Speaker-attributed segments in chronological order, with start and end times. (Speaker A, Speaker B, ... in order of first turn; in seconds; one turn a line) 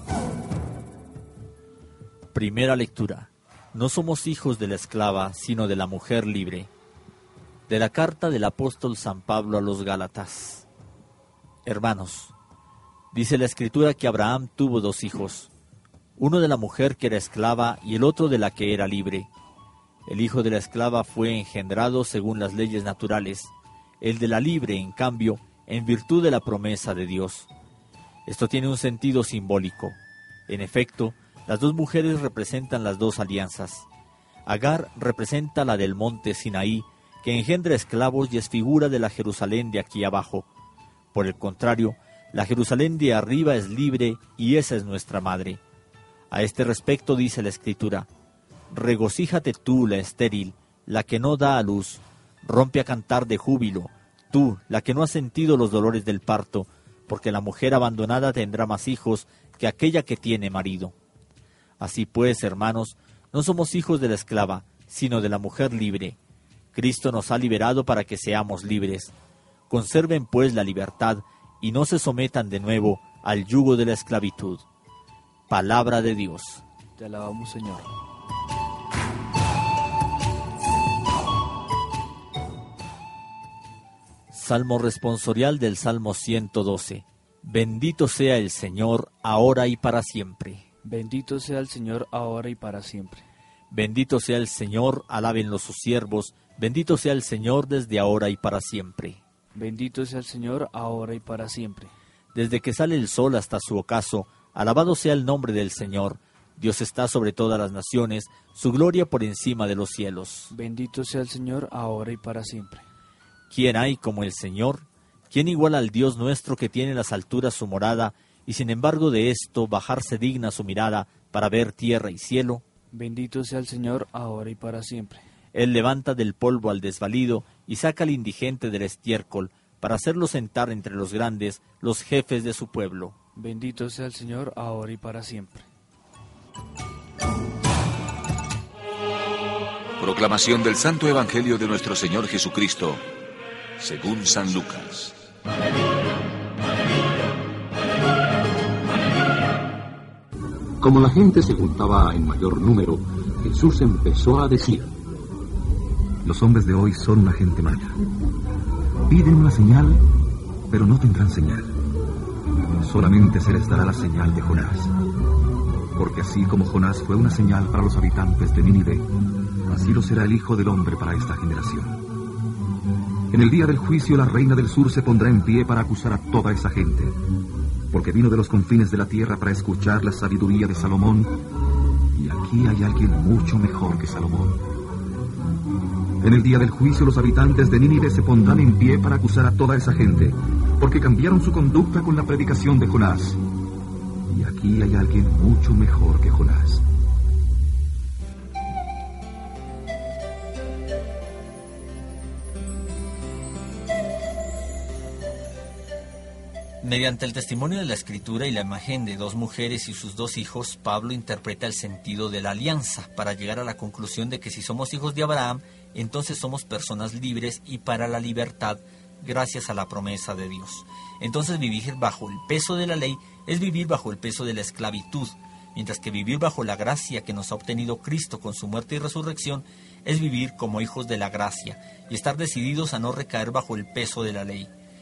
Speaker A: 2.3-6.7
Speaker A: 7.7-10.7
Speaker A: 11.6-12.3
Speaker A: 13.1-15.5
Speaker A: 16.2-19.3
Speaker A: 20.1-27.5
Speaker A: 28.3-30.0
Speaker A: 30.5-33.9
Speaker A: 34.5-40.5
Speaker A: 41.1-45.6
Speaker A: 46.3-48.1
Speaker A: 48.7-60.9
Speaker A: 61.8-66.2
Speaker A: 66.7-69.1
Speaker A: 69.7-74.6
Speaker A: 75.5-76.6
Speaker B: 77.0-77.9
Speaker A: 84.3-90.7
Speaker B: 90.8-93.2
Speaker A: 93.7-99.2
Speaker B: 99.6-101.9
Speaker A: 102.3-110.5
Speaker B: 110.5-112.8
Speaker A: 113.5-122.6
Speaker B: 122.9-125.2
Speaker A: 125.5-133.1
Speaker B: 133.4-135.7
Speaker C: 140.0-143.0
Speaker C: 143.8-145.1
Speaker D: 150.8-154.9
Speaker E: 156.2-158.0
Speaker E: 159.1-160.0
Speaker E: 160.7-161.7
Speaker E: 162.6-164.9
Speaker E: 166.0-169.1
Speaker E: 169.7-172.0
Speaker E: 173.3-177.2
Speaker E: 177.9-181.3
Speaker E: 182.2-184.6
Speaker E: 186.2-193.4
Speaker E: 194.3-196.8
Speaker A: 206.8-234.7